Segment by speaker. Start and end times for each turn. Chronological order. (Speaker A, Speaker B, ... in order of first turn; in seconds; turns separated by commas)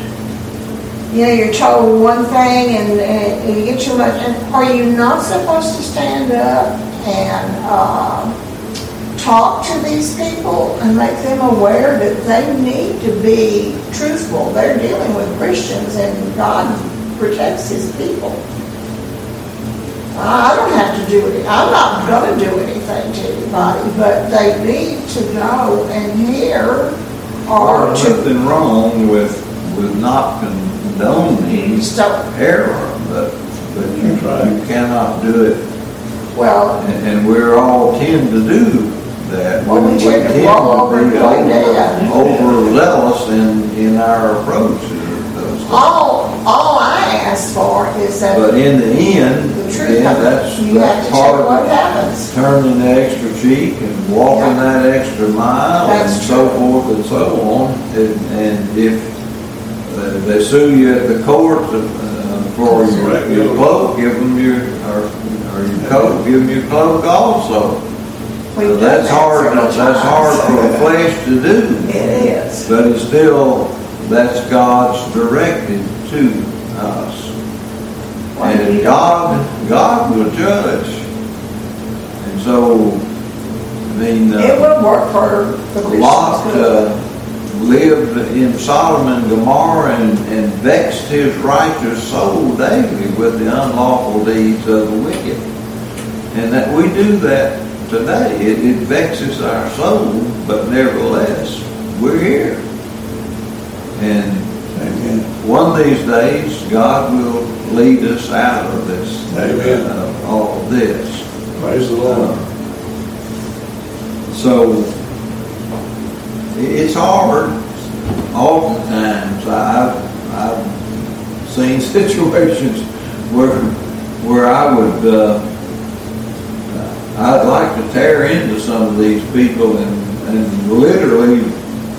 Speaker A: 1.1-8.3, Speaker A: 9.1-18.4, Speaker A: 20.1-26.9, Speaker A: 27.4-28.2, Speaker B: 27.5-35.6, Speaker A: 31.5-32.2, Speaker C: 34.0-34.5, Speaker A: 36.3-36.8, Speaker B: 36.8-45.9, Speaker A: 39.6-42.2, Speaker A: 45.7-48.5, Speaker B: 48.3-51.7, Speaker A: 49.5-52.3, Speaker B: 52.3-59.1, Speaker A: 54.3-54.6, Speaker A: 55.8-56.6, Speaker B: 59.8-67.8, Speaker C: 62.8-63.6, Speaker A: 68.5-70.8, Speaker B: 68.6-77.3, Speaker A: 71.8-72.7, Speaker A: 78.3-79.0, Speaker B: 78.4-81.0, Speaker B: 82.2-83.0, Speaker B: 83.9-84.7, Speaker A: 84.3-86.9, Speaker B: 85.8-87.0, Speaker B: 87.5-95.4, Speaker B: 96.3-102.6, Speaker B: 104.0-104.5, Speaker C: 104.7-105.3, Speaker B: 105.4-111.2, Speaker C: 109.3-109.8, Speaker C: 111.6-112.3, Speaker B: 112.0-112.4, Speaker B: 114.3-114.9, Speaker B: 116.5-117.7, Speaker B: 118.3-120.8, Speaker B: 121.4-125.4, Speaker B: 126.7-131.5